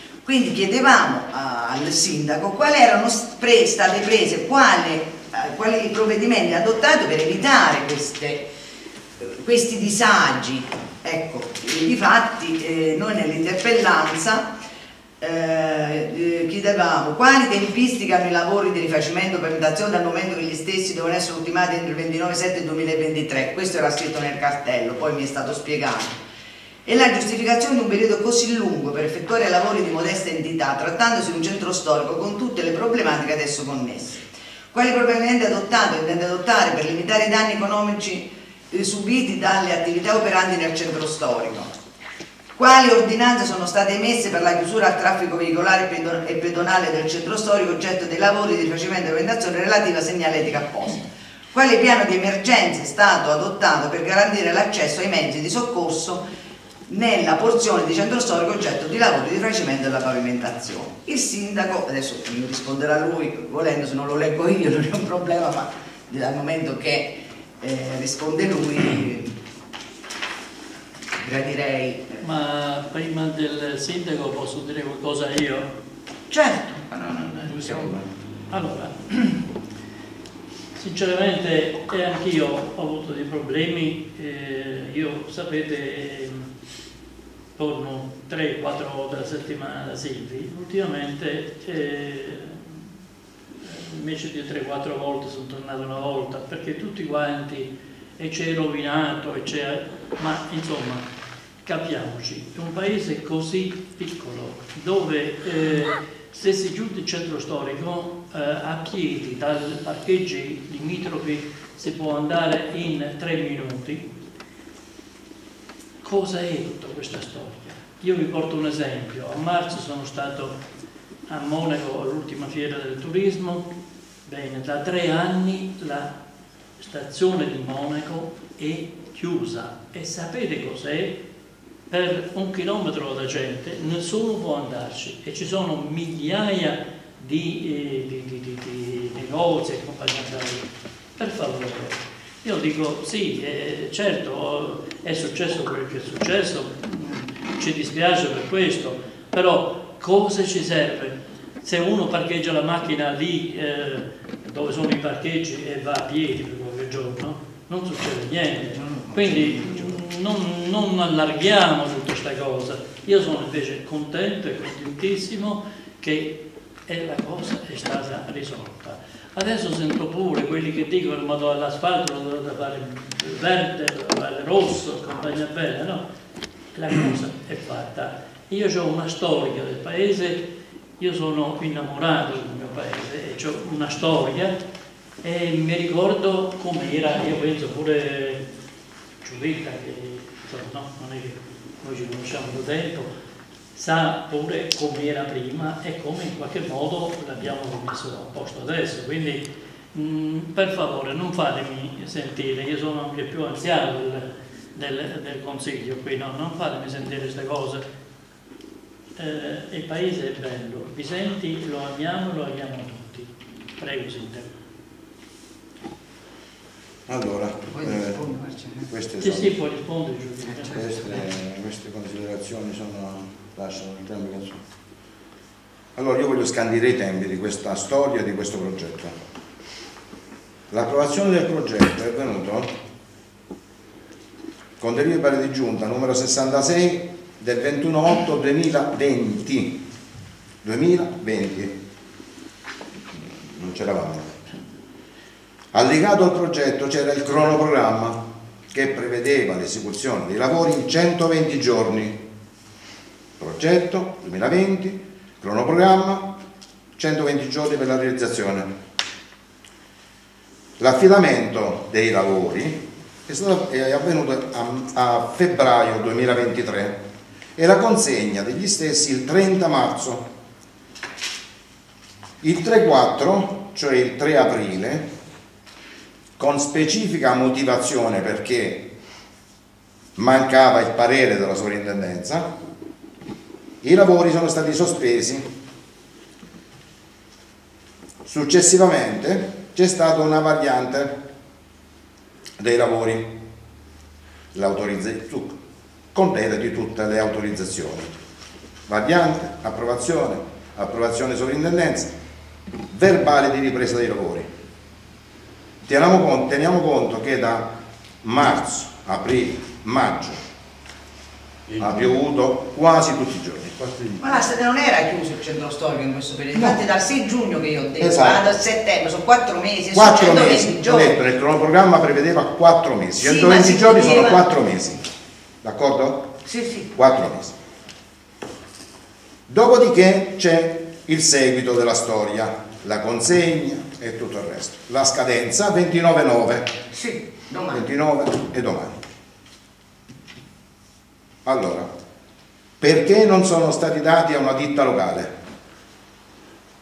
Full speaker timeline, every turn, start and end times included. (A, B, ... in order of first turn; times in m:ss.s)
0:00.2-0:08.5 A
0:09.2-0:14.5 A
0:15.2-0:26.2 A
0:26.8-0:41.7 A
0:42.6-0:56.2 A
0:56.9-1:09.4 A
1:11.2-1:12.2 A
1:12.2-1:15.7 B
1:16.3-1:18.0 A
1:17.5-1:18.0 C
1:18.5-1:19.2 B
1:20.7-1:26.5 B
1:27.6-1:32.8 B
1:33.6-1:41.0 B
1:41.6-1:54.1 B
1:56.0-2:00.6 B
2:01.3-2:03.7 B
2:04.2-2:06.1 B
2:06.8-2:11.2 B
2:11.9-2:20.6 B
2:21.2-2:56.0 B
2:38.7-2:39.9 A
2:56.7-3:00.4 B
3:01.0-3:04.5 B
3:05.2-3:08.4 B
3:09.2-3:13.1 B
3:13.7-3:27.8 B
3:29.2-3:34.5 B
3:37.1-3:38.3 C
3:37.7-3:38.9 A
3:38.8-3:39.6 C
3:39.2-3:41.2 B
3:40.6-3:44.6 C
3:46.0-3:49.2 C
3:50.7-3:52.7 C
3:54.8-3:59.8 C
4:00.6-4:01.8 C
4:03.1-4:04.4 C
4:05.7-4:12.2 C
4:13.4-4:16.4 C
4:17.0-4:18.7 C
4:20.8-4:27.0 C
4:27.6-4:30.3 C
4:32.4-4:35.1 C
4:36.4-4:38.9 C
4:40.2-4:42.5 C
4:43.8-4:45.5 C
4:48.2-4:51.2 C
4:52.6-4:53.4 C
4:54.5-4:55.6 C
4:56.1-4:58.2 C
4:58.9-5:02.1 C
5:02.9-5:04.5 C
5:05.8-5:10.4 C
5:11.8-5:14.4 C
5:14.2-5:21.2 A
5:16.5-5:16.8 C
5:18.0-5:18.4 C
5:19.9-5:25.1 C
5:23.2-5:24.4 A
5:25.6-5:26.3 C
5:26.4-5:26.9 A
5:26.9-5:27.6 C
5:29.5-5:36.7 C
5:36.9-5:37.8 A
5:37.7-5:39.0 C
5:41.4-5:41.9 C
5:42.8-5:45.4 C